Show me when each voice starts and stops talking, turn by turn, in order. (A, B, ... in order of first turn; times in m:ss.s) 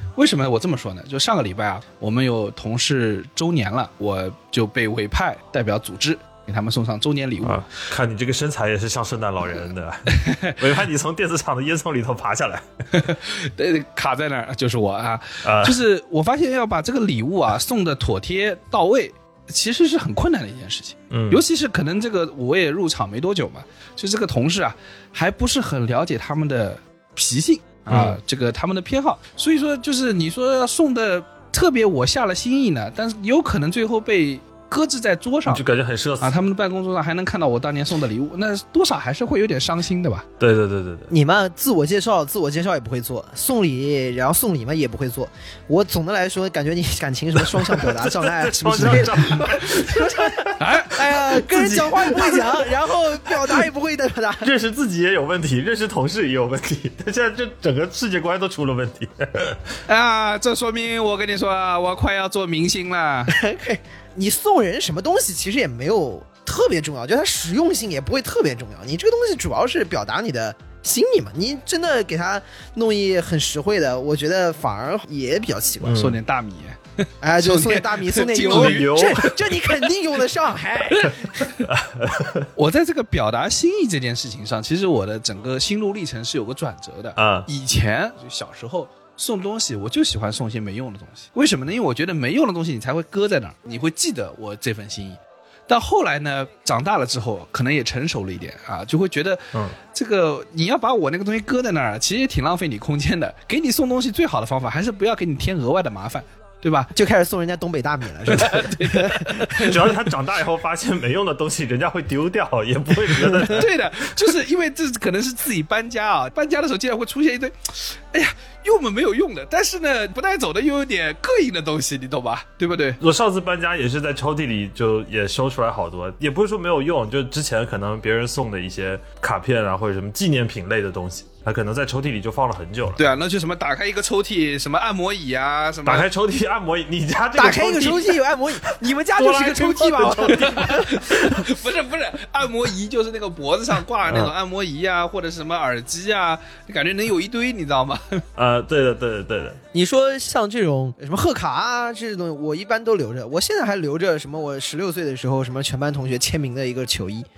0:00.2-0:07.6 A
0:07.4-0:12.6 B
0:10.1-0:10.6 A
0:12.9-0:35.6 A
0:15.4-0:15.8 B
0:21.1-0:21.4 B
0:27.9-0:28.2 B
0:35.5-0:36.4 B
0:36.2-0:40.3 A
0:40.4-0:41.1 B
0:41.1-0:54.5 C
0:47.8-0:50.6 B
0:50.6-0:52.4 A
0:54.4-0:59.6 B
0:59.9-1:03.4 A
1:03.3-1:16.0 C
1:15.8-1:16.2 B
1:15.9-1:19.3 A
1:17.2-1:21.4 C
1:18.5-1:19.4 B
1:21.6-1:22.5 B
1:22.6-1:46.9 A
1:27.2-1:27.5 B
1:46.9-1:49.8 C
1:48.3-1:49.8 A
1:49.6-1:54.3 B
1:53.3-2:03.0 A
2:03.0-2:13.1 B
2:13.0-2:16.1 A
2:15.8-2:21.4 B
2:17.4-2:21.2 C
2:20.4-2:28.2 A
2:24.1-2:24.3 B
2:28.4-2:29.6 B
2:29.7-2:37.3 C